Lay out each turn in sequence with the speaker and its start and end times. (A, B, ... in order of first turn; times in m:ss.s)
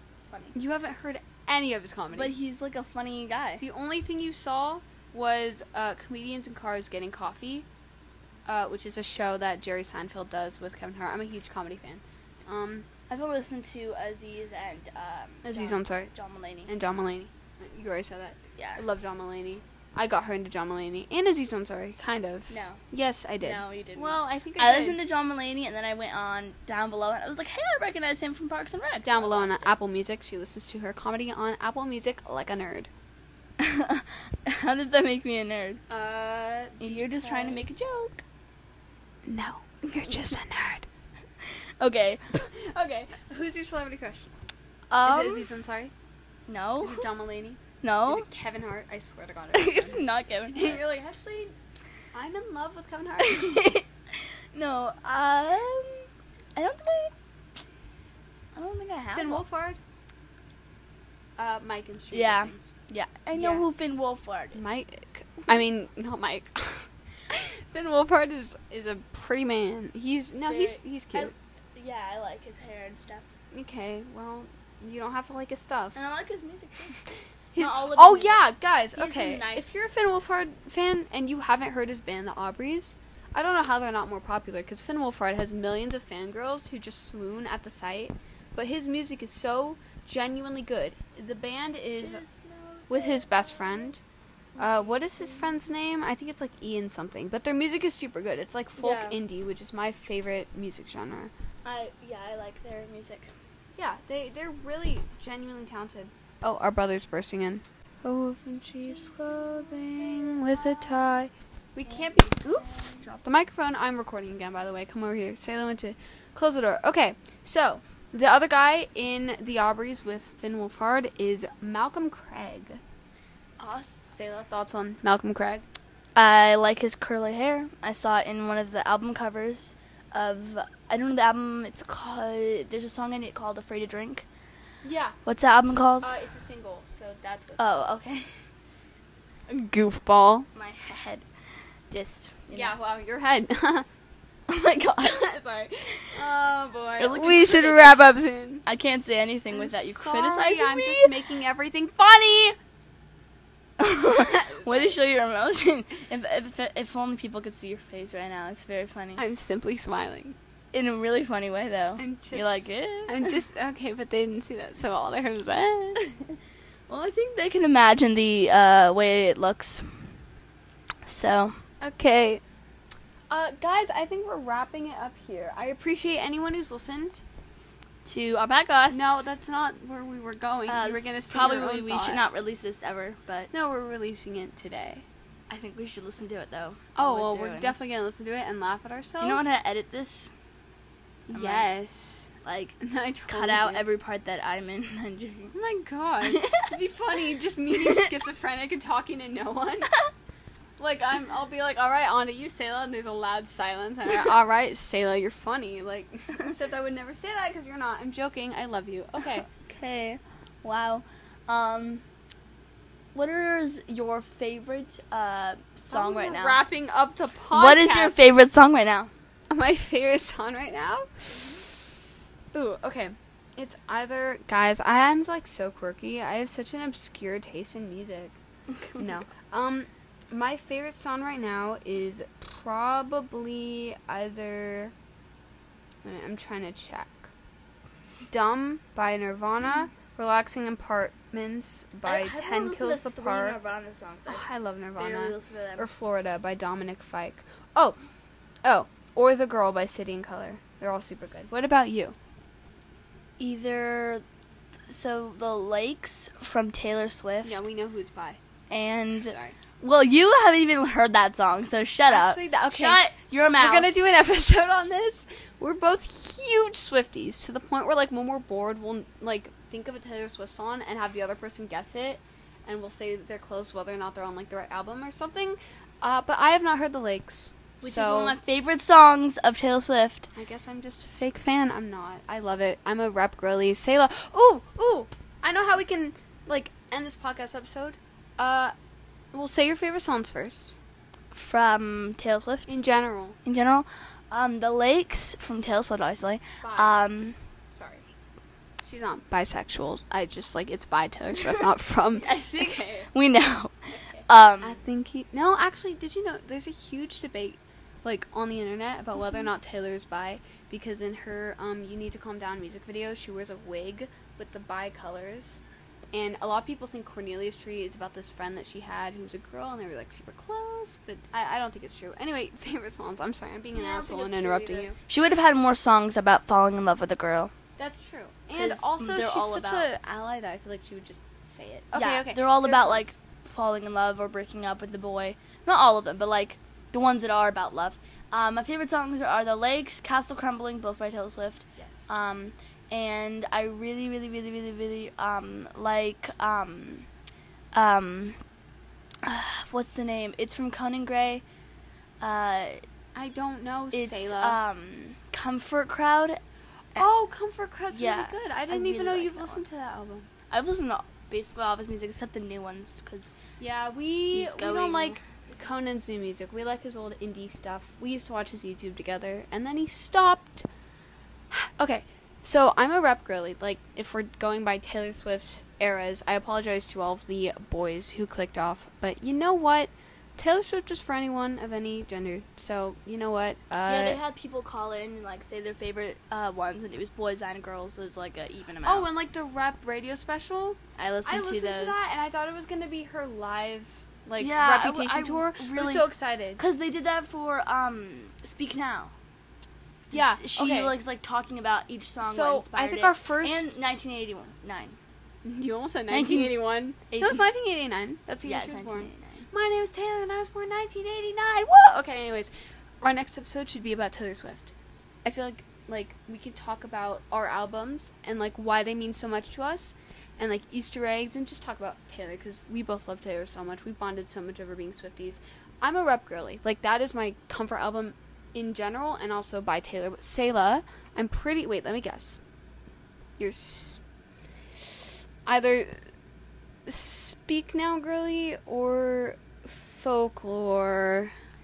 0:00.3-0:00.5 A
0:00.5-0:02.3 B
0:02.1-0:03.6 A
0:03.6-0:07.6 B
0:08.5-0:12.9 B
0:13.1-0:16.7 A
0:15.4-0:16.1 B
0:16.7-0:25.0 B
0:18.6-0:18.8 A
0:22.5-0:22.8 A
0:23.4-0:29.7 A
0:29.0-0:32.9 B
0:33.6-0:35.8 A
0:35.9-0:37.8 B
0:36.8-0:38.2 A
0:39.2-0:40.8 B
0:41.4-0:42.2 A
0:42.3-0:44.3 B
0:44.9-0:45.5 A
0:45.0-0:45.9 B
0:46.5-0:47.1 A
0:46.8-0:51.5 B
0:47.8-0:48.2 A
0:49.5-0:50.8 A
0:52.1-0:53.6 B
0:53.2-0:57.1 A
0:58.5-0:59.4 A
0:59.1-0:59.8 B
1:01.4-1:02.7 B
1:02.1-1:04.6 A
1:03.3-1:03.6 B
1:04.5-1:11.3 B
1:10.5-1:13.3 A
1:13.5-1:16.0 B
1:15.9-1:17.0 A
1:17.5-1:32.2 B
1:17.6-1:19.8 A
1:32.0-1:33.9 A
1:32.9-1:34.0 B
1:34.6-1:35.5 A
1:34.6-1:41.3 B
1:38.8-1:39.2 A
1:41.6-1:43.3 A
1:43.8-2:02.8 B
1:48.9-1:51.1 A
1:51.8-1:53.1 A
2:03.6-2:04.1 A
2:04.0-2:05.6 B
2:06.2-2:14.2 A
2:14.8-2:15.2 B
2:15.2-2:16.1 A
2:16.0-2:17.9 B
2:17.6-2:18.3 A
2:19.5-2:20.5 B
2:20.5-2:21.2 A
2:21.9-2:22.7 A
2:22.5-2:23.8 B
2:24.5-2:25.3 A
2:25.0-2:28.6 B
2:27.0-2:28.1 A
2:28.6-2:31.1 A
2:29.5-2:32.6 B
2:33.8-2:39.2 A
2:34.1-2:35.0 B
2:39.2-2:40.3 B
2:40.7-2:43.3 A
2:42.0-2:46.0 B
2:45.9-2:46.4 A
2:46.9-2:50.0 A
2:51.0-2:51.6 A
2:51.8-2:52.4 B
2:53.3-2:57.2 B
2:58.0-2:59.2 A
2:58.9-3:02.2 B
3:00.7-3:03.5 A
3:03.5-3:05.0 B
3:05.5-3:07.7 A
3:07.0-3:09.6 B
3:09.2-3:10.3 A
3:11.3-3:13.8 B
3:11.3-3:11.7 A
3:12.4-3:15.6 A
3:15.5-3:19.9 B
3:16.2-3:16.7 A
3:17.7-3:18.1 A
3:20.8-3:29.5 B
3:29.6-3:32.0 A
3:33.1-3:36.6 A
3:35.9-3:38.2 B
3:37.5-3:39.1 A
3:39.5-3:41.9 B
3:42.5-3:48.3 B
3:49.0-3:54.9 B
3:56.0-3:57.3 B
3:58.3-4:03.6 B
4:02.0-4:05.9 A
4:04.3-4:08.0 B
4:08.6-4:12.2 B
4:13.4-4:14.2 A
4:14.9-4:17.6 A
4:17.4-4:18.4 B
4:18.7-4:23.9 A
4:19.2-4:19.6 B
4:22.1-4:23.0 B
4:23.6-4:38.4 B
4:37.8-4:40.3 A
4:40.3-4:48.7 B
4:49.3-4:50.8 B
4:51.3-4:52.7 A
4:52.7-4:53.4 B
4:53.4-4:57.4 A
4:56.6-4:57.0 B
4:57.7-4:58.1 B
4:58.8-5:03.1 B
5:02.1-5:04.8 A
5:04.0-5:15.6 B
5:16.1-5:25.0 B
5:23.7-5:27.5 A
5:27.8-5:33.1 B
5:28.5-5:29.9 A
5:31.9-5:47.0 A
5:41.8-5:42.1 B
5:47.7-5:48.4 A
5:49.2-5:51.4 A
5:52.2-5:52.8 A
5:53.1-5:54.6 B
5:53.9-5:56.4 A
5:57.0-6:00.3 B
5:57.9-5:59.6 A
6:00.5-6:03.3 A
6:03.6-6:10.6 B
6:04.3-6:05.2 A
6:11.5-6:24.2 B
6:23.8-6:29.1 A
6:28.8-6:36.6 B
6:31.0-6:32.1 A
6:34.4-6:39.1 A
6:40.1-6:40.9 B
6:40.1-6:45.0 A
6:42.2-6:43.6 B
6:45.4-6:54.7 B
6:46.1-6:46.5 A
6:47.1-6:47.4 A
6:48.4-6:49.5 A
6:55.2-7:12.4 B
7:13.4-7:14.0 B
7:15.4-7:16.0 B
7:16.8-7:21.3 B